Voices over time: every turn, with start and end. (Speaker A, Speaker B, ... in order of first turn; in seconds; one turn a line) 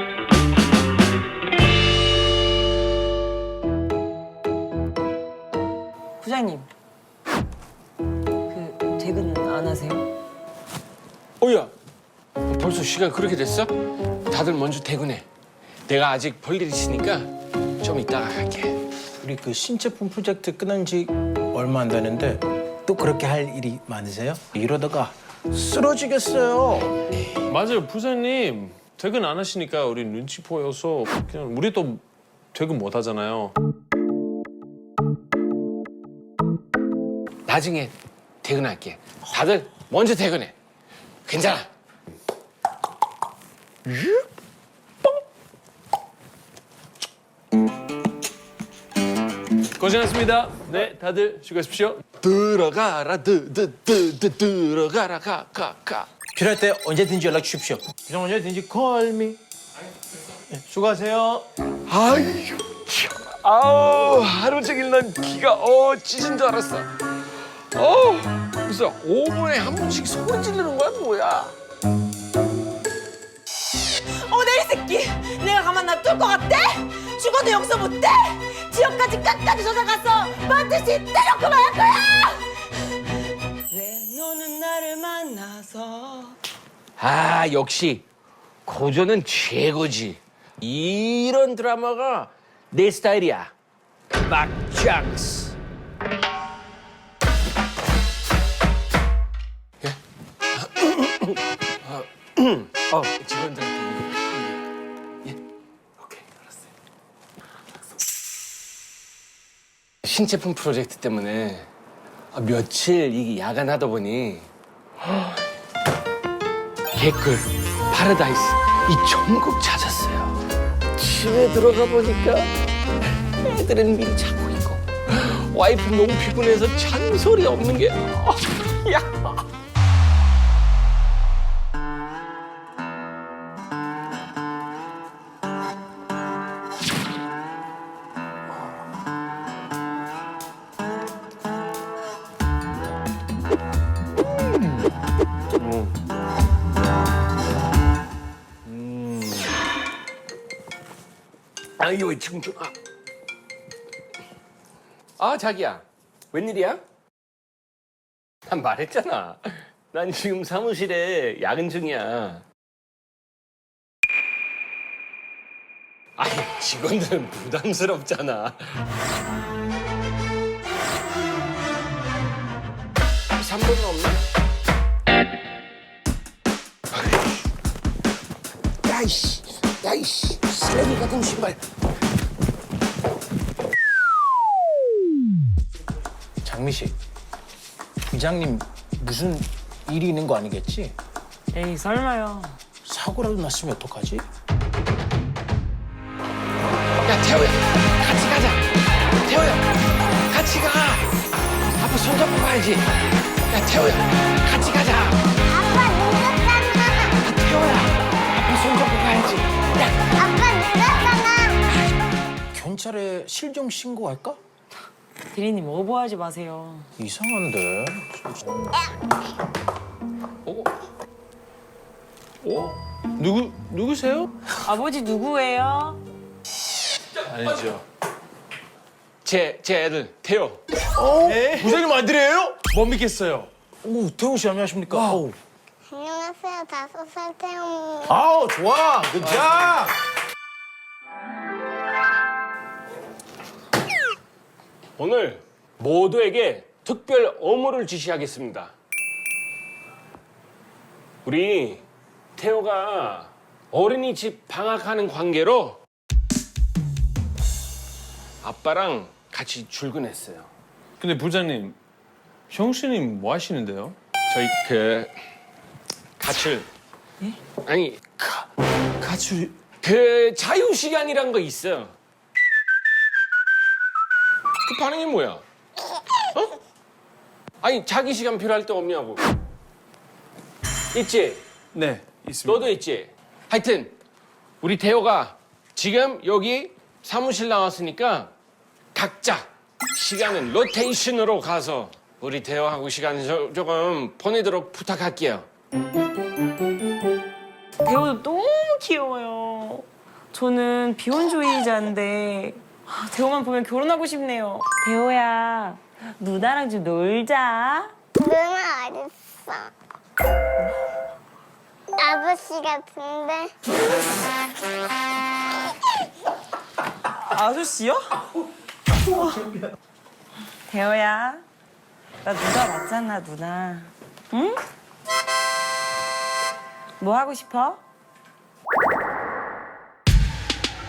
Speaker A: 6.2-6.7
Speaker A: 8.5-10.1
Speaker B: 11.4-11.7
Speaker B: 12.5-13.7
Speaker B: 14.3-15.3
Speaker B: 15.9-18.8
Speaker C: 19.2-26.9
Speaker D: 27.5-32.0
Speaker D: 32.5-33.6
Speaker B: 37.5-40.5
Speaker B: 41.2-41.7
Speaker D: 49.8-52.0
Speaker B: 52.2-56.1
Speaker C: 56.3-59.4
Speaker C: 60.5-61.5
Speaker B: 61.9-66.9
Speaker B: 67.7-71.5
Speaker A: 74.0-82.5
Speaker A: 83.7-86.4
Speaker B: 87.0-88.1
Speaker B: 88.7-93.5
Speaker B: 94.2-95.6
Speaker B: 100.5-104.7
Speaker B: 110.0-111.7
Speaker B: 112.3-114.5
Speaker B: 115.0-115.4
Speaker B: 116.9-120.4
Speaker B: 121.0-122.5
Speaker B: 123.4-129.3
Speaker D: 145.6-145.9
Speaker B: 148.7-149.6
Speaker B: 151.8-152.8
Speaker B: 155.2-156.8
Speaker B: 158.5-162.4
Speaker B: 166.2-168.8
Speaker B: 173.4-174.2
Speaker B: 176.9-177.3
Speaker B: 178.8-181.6
Speaker C: 186.4-187.0
Speaker C: 188.1-191.0
Speaker A: 191.5-192.6
Speaker C: 192.8-194.3
Speaker B: 197.0-198.6
Speaker B: 199.2-199.7
Speaker B: 200.3-201.1
Speaker B: 201.8-202.9
Speaker B: 203.5-205.2
Speaker E: 205.5-207.2
Speaker B: 207.2-210.0
Speaker E: 210.2-211.6
Speaker C: 212.5-214.4
Speaker A: 215.3-216.9
Speaker C: 217.0-218.6
Speaker D: 222.4-224.3
Speaker A: 224.6-226.0
Speaker D: 227.2-227.8
Speaker B: 229.2-230.6
Speaker C: 231.0-232.7
Speaker D: 231.2-231.8
Speaker D: 232.7-233.5
Speaker C: 233.8-235.4
Speaker D: 234.9-235.2
Speaker E: 235.9-238.2
Speaker C: 238.1-239.9
Speaker B: 245.0-248.7
Speaker B: 251.2-251.8
Speaker B: 252.4-255.8
Speaker B: 258.4-260.5
Speaker D: 261.0-261.8
Speaker D: 262.5-264.0
Speaker B: 264.3-265.1
Speaker B: 266.2-266.7
Speaker B: 267.6-268.0
Speaker D: 269.0-269.6
Speaker B: 269.8-271.9
Speaker B: 274.6-275.4
Speaker B: 277.6-279.2
Speaker B: 280.9-281.4
Speaker D: 281.7-282.7
Speaker B: 282.4-283.9
Speaker B: 284.6-288.3
Speaker B: 288.9-295.5
Speaker A: 297.8-307.9
Speaker E: 308.2-309.7
Speaker E: 312.0-313.6
Speaker A: 317.2-318.3
Speaker A: 319.0-319.5
Speaker A: 320.7-321.4
Speaker A: 322.2-324.6
Speaker A: 327.0-327.8